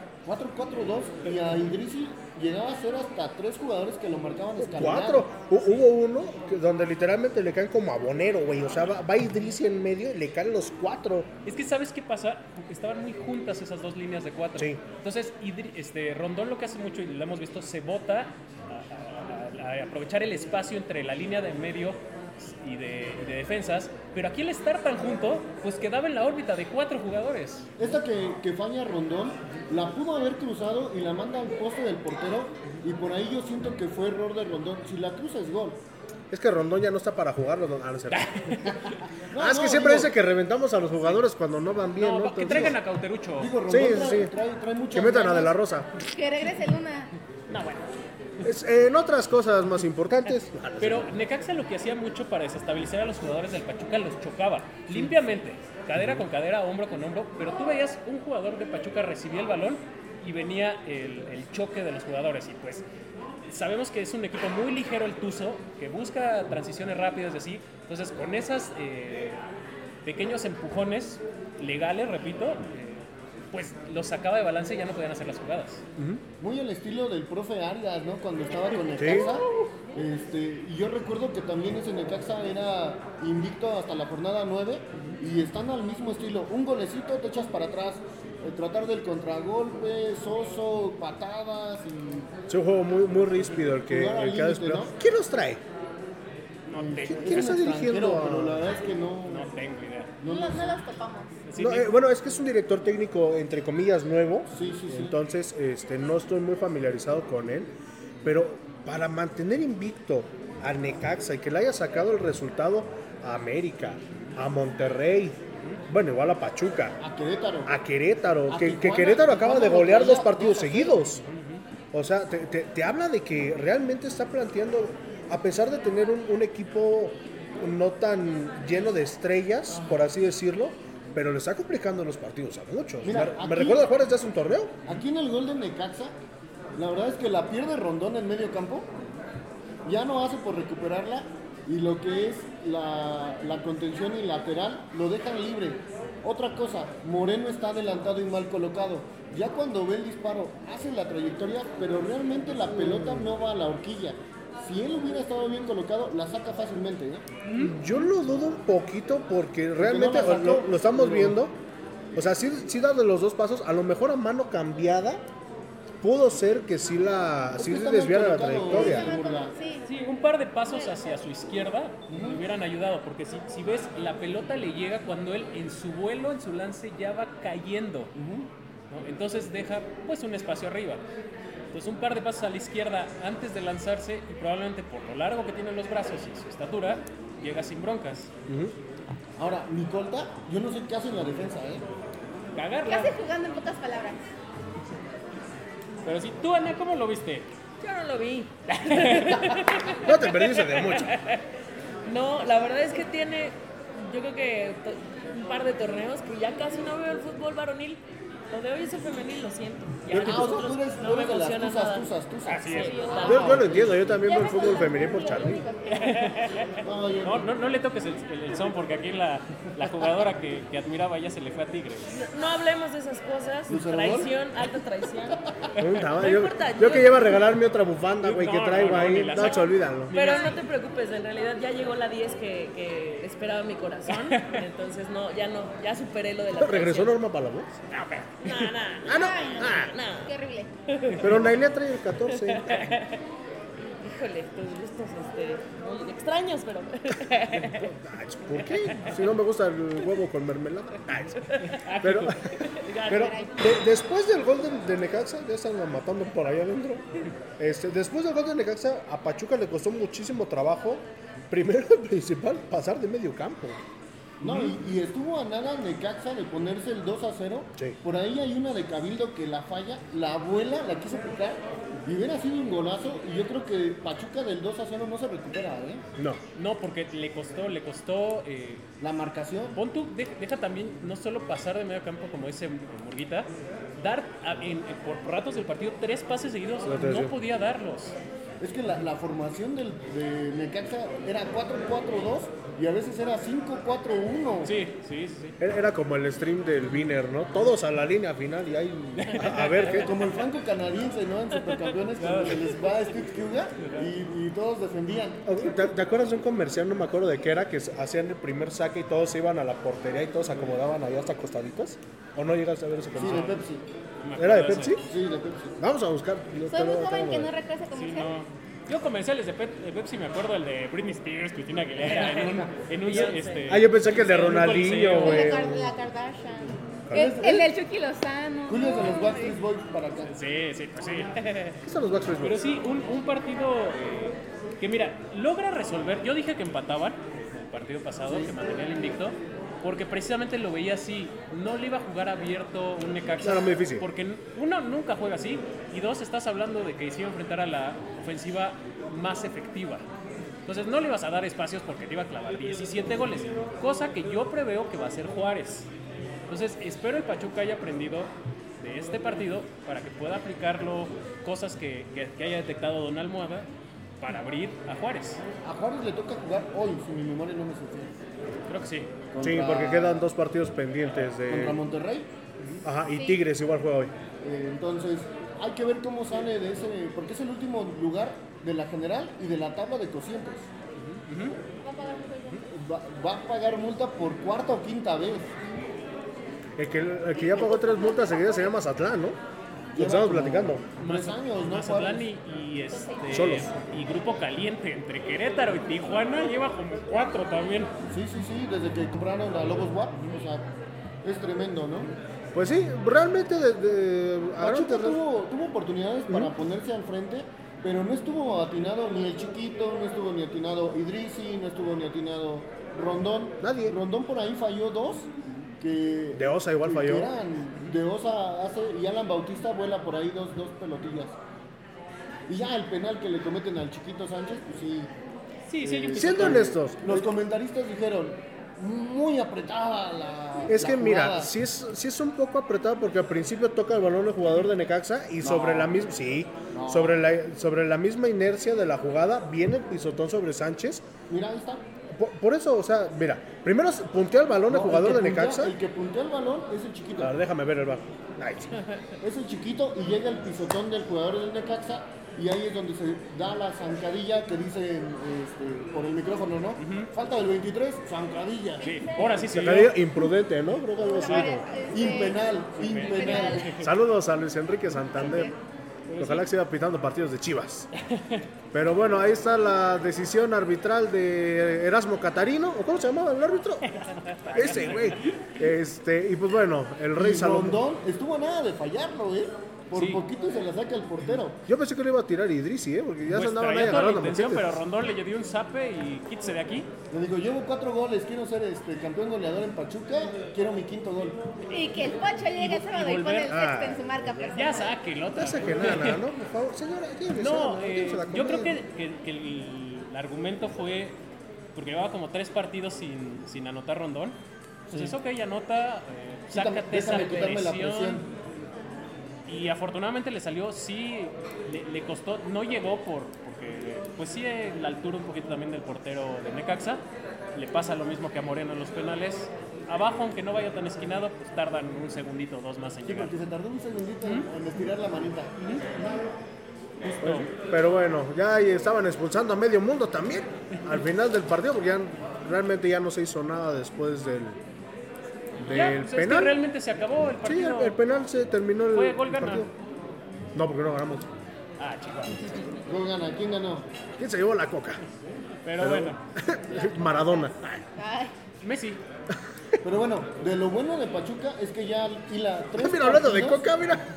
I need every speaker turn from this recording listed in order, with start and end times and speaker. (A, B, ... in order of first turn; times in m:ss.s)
0:00.2-0:05.3 A
0:04.6-0:11.3 B
0:11.4-0:27.8 C
0:27.8-0:35.8 A
0:36.3-0:38.7 B
0:38.1-0:39.0 C
0:39.3-0:40.1 A
0:39.3-0:42.8 B
0:42.0-0:43.5 C
0:43.4-0:45.5 A
0:43.7-0:44.3 B
0:44.9-0:45.9 B
0:46.0-0:47.1 D
0:47.5-0:47.9 C
0:48.4-0:51.1 B
0:50.8-1:02.9 C
0:56.0-0:56.2 B
1:03.5-1:09.4 C
1:10.0-1:15.8 C
1:16.0-1:16.2 B
1:16.4-1:32.3 A
1:19.0-1:19.3 B
1:19.0-1:19.7 C
1:32.5-1:35.6 B
1:33.8-1:34.9 A
1:36.7-1:37.4 C
1:36.7-1:39.5 A
1:37.0-1:38.6 B
1:39.2-1:40.1 C
1:40.2-1:40.8 A
1:40.2-1:41.3 D
1:41.4-1:41.9 C
1:41.6-1:57.0 B
1:44.5-1:45.2 A
1:57.0-1:57.7 A
1:57.6-2:01.2 B
1:58.5-2:01.0 A
2:01.3-2:01.6 C
2:01.9-2:14.8 B
2:13.0-2:13.9 A
2:14.8-2:16.1 A
2:16.8-2:18.9 A
2:19.8-2:37.2 A
2:32.6-2:33.3 B
2:37.4-2:37.7 C
2:37.6-2:41.6 B
2:39.8-2:41.4 A
2:42.1-2:45.2 B
2:46.0-2:49.1 B
2:47.6-2:49.5 A
2:48.7-2:49.9 D
2:49.8-2:58.1 C
2:50.7-2:51.2 D
2:52.1-2:52.4 A
2:58.2-2:58.5 A
2:58.9-3:01.0 C
3:01.7-3:08.3 C
3:08.5-3:08.7 B
3:09.4-3:11.8 A
3:12.5-3:13.1 C
3:12.9-3:14.2 D
3:16.0-3:17.5 C
3:17.8-3:21.4 E
3:18.8-3:19.6 C
3:20.0-3:21.1 B
3:22.0-3:32.1 E
3:30.1-3:30.6 B
3:30.1-3:33.9 A
3:32.4-3:33.2 C
3:32.6-3:33.8 E
3:32.8-3:36.3 D
3:33.2-3:35.6 B
3:35.9-3:42.1 C
3:36.8-3:37.5 A
3:42.1-3:45.4 E
3:43.7-3:44.3 A
3:45.8-3:50.1 B
3:46.0-3:47.4 E
3:48.2-3:50.4 C
3:50.1-3:57.2 E
3:50.1-3:50.6 D
3:54.1-3:54.6 C
3:56.6-3:57.8 B
3:57.9-3:58.7 C
3:58.4-4:00.3 E
3:59.0-3:59.9 B
3:59.1-4:00.7 D
4:00.9-4:01.4 E
4:01.1-4:01.5 C
4:01.2-4:02.8 B
4:02.3-4:03.2 E
4:04.0-4:07.9 E
4:07.5-4:17.0 B
4:11.4-4:13.5 E
4:11.8-4:12.4 C
4:13.2-4:13.5 D
4:17.6-4:23.8 B
4:24.4-4:36.0 A
4:24.4-4:24.7 C
4:36.6-4:38.9 C
4:39.0-4:39.8 A
4:39.7-4:48.2 C
4:46.8-4:47.4 B
4:48.6-4:54.7 A
4:54.6-4:55.6 C
4:55.6-5:00.2 B
4:59.2-5:00.2 C
4:59.9-5:05.4 A
5:02.1-5:02.8 C
5:03.8-5:04.1 C
5:05.4-5:13.6 B
5:13.1-5:13.6 C
5:13.2-5:13.8 A
5:14.2-5:15.0 C
5:14.4-5:15.0 B
5:15.1-5:15.8 A
5:15.8-5:17.5 B
5:16.7-5:18.3 D
5:17.9-5:25.6 C
5:22.0-5:23.7 E
5:23.1-5:25.9 B
5:25.1-5:29.6 D
5:27.1-5:27.4 B
5:27.1-5:27.7 A
5:28.7-5:30.3 A
5:30.2-5:31.3 C
5:31.8-5:32.6 B
5:32.4-5:50.0 C
5:38.2-5:38.5 A
5:43.4-5:44.1 B
5:50.6-5:55.9 C
5:56.5-6:03.7 C
6:04.2-6:05.4 C
6:05.6-6:08.1 A
6:08.6-6:09.1 C
6:09.3-6:10.2 A
6:09.4-6:11.8 B
6:11.4-6:12.3 A
6:12.8-6:14.1 B
6:13.1-6:13.4 D
6:14.4-6:20.7 A
6:21.0-6:21.6 C
6:21.8-6:22.7 D
6:22.6-6:25.5 A
6:26.8-6:29.4 B
6:27.4-6:28.7 D
6:29.9-6:32.2 A
6:30.0-6:30.8 B
6:31.0-6:37.9 C
6:32.9-6:33.4 D
6:33.3-6:33.7 B
6:38.1-6:40.7 A
6:41.2-6:42.1 A
6:42.5-6:45.2 B
6:44.6-7:01.4 A
6:53.6-6:54.0 B
6:56.4-6:57.3 B
7:02.5-7:05.1 A
7:05.7-7:06.8 C
7:05.8-7:11.5 A
7:06.1-7:07.3 B
7:10.7-7:21.1 B
7:15.4-7:15.9 A
7:16.7-7:17.2 A
7:21.3-7:21.8 A
7:22.1-7:25.8 B
7:24.7-7:27.4 A
7:27.2-7:28.8 B
7:29.2-7:38.9 A
7:36.8-7:37.1 C
7:38.8-7:39.5 D
7:38.8-7:40.0 C
7:39.5-7:41.6 B
7:41.0-7:43.9 D
7:41.9-7:43.6 A
7:42.8-7:43.9 C
7:43.8-7:45.5 B
7:45.2-7:45.5 C
7:45.2-7:45.5 D
7:46.1-7:46.5 C
7:46.2-7:47.9 B
7:48.0-7:48.4 C
7:48.7-7:53.9 B
7:53.9-7:55.5 C
7:54.5-7:57.8 B
7:57.2-8:01.6 A
7:59.9-8:00.2 C
8:01.7-8:04.8 B
8:03.3-8:06.9 C
8:07.1-8:11.4 A
8:11.7-8:15.0 D
8:12.5-8:13.6 C
8:13.5-8:14.2 B
8:14.4-8:16.3 C
8:15.3-8:18.8 B
8:17.4-8:21.2 C
8:21.7-8:24.4 C
8:24.9-8:28.2 C
8:26.5-8:28.3 A
8:29.4-8:37.0 C
8:37.5-8:43.3 C
8:43.1-8:45.5 A
8:44.2-8:44.5 C
8:45.6-8:46.2 C
8:47.0-8:47.5 C
8:47.2-8:54.6 B
8:55.6-8:56.6 B
8:55.7-8:58.0 C
8:57.4-8:59.7 B
8:58.9-8:59.7 C
9:00.5-9:01.3 B
9:01.8-9:02.7 C
9:02.9-9:03.9 A
9:04.2-9:05.0 B
9:05.6-9:06.2 C
9:05.8-9:07.9 B
9:06.8-9:07.2 D
9:08.0-9:08.3 D
9:08.6-9:09.0 C
9:09.3-9:09.8 B
9:09.8-9:13.7 A
9:12.7-9:14.1 B